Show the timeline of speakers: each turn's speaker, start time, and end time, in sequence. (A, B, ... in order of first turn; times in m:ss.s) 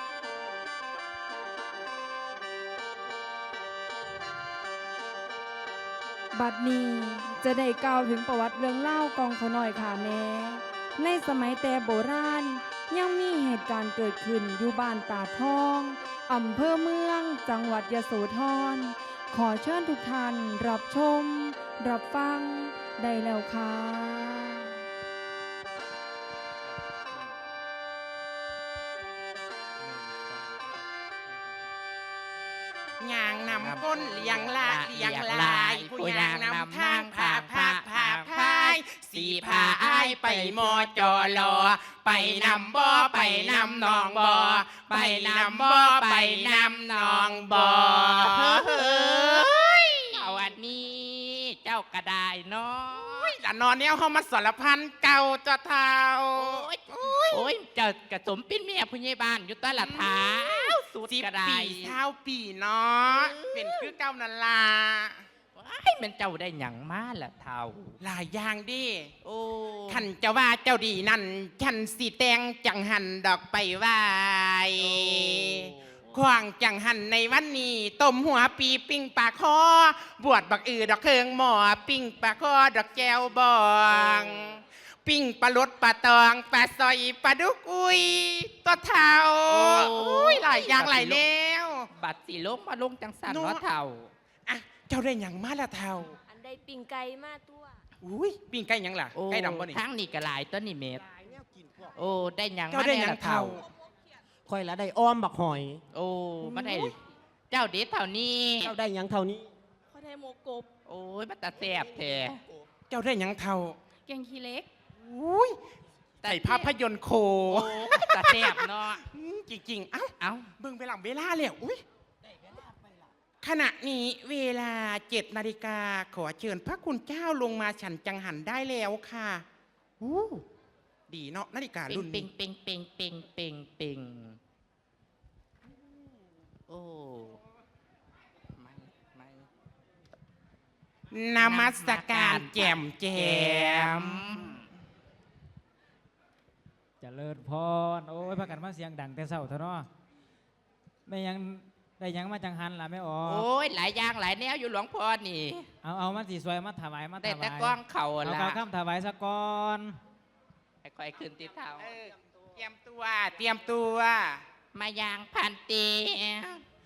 0:06.3-0:24.7 A
0:30.0-0:30.4 B
0:33.0-0:49.5 C
0:33.5-0:53.3 B
0:52.9-0:57.5 C
0:56.3-1:02.0 B
0:59.7-1:05.2 C
1:03.1-1:03.9 B
1:05.5-1:08.0 B
1:08.0-1:09.1 C
1:09.2-1:10.1 B
1:09.9-1:31.9 C
1:14.8-1:16.2 B
1:23.9-1:24.4 B
1:29.4-1:31.2 B
1:31.9-1:34.1 B
1:33.2-1:33.6 C
1:34.4-1:36.2 C
1:36.3-1:37.8 D
1:38.0-1:39.8 C
1:39.1-1:41.0 B
1:41.1-1:42.1 E
1:41.9-1:43.6 B
1:42.7-1:43.6 C
1:44.4-1:45.8 E
1:45.9-1:47.0 B
1:46.4-1:46.7 C
1:47.5-1:48.8 B
1:48.6-1:49.5 E
1:49.9-1:50.7 D
1:50.8-1:52.4 B
1:52.9-1:53.8 C
1:54.0-1:54.7 D
1:55.0-1:55.6 C
1:56.2-1:56.7 B
1:56.2-2:01.8 C
1:57.5-1:59.0 B
2:00.2-2:00.5 B
2:03.4-2:09.4 C
2:10.0-2:10.4 C
2:11.1-2:12.3 C
2:11.9-2:14.4 B
2:16.7-2:17.4 B
2:18.5-2:19.4 B
2:21.1-2:24.5 C
2:21.4-2:24.6 B
2:27.0-2:29.9 F
2:31.1-2:33.5 F
2:33.2-2:35.7 B
2:35.8-2:40.0 F
2:37.2-2:38.6 B
2:40.8-2:41.9 B
2:41.8-2:44.4 C
2:44.7-2:46.6 B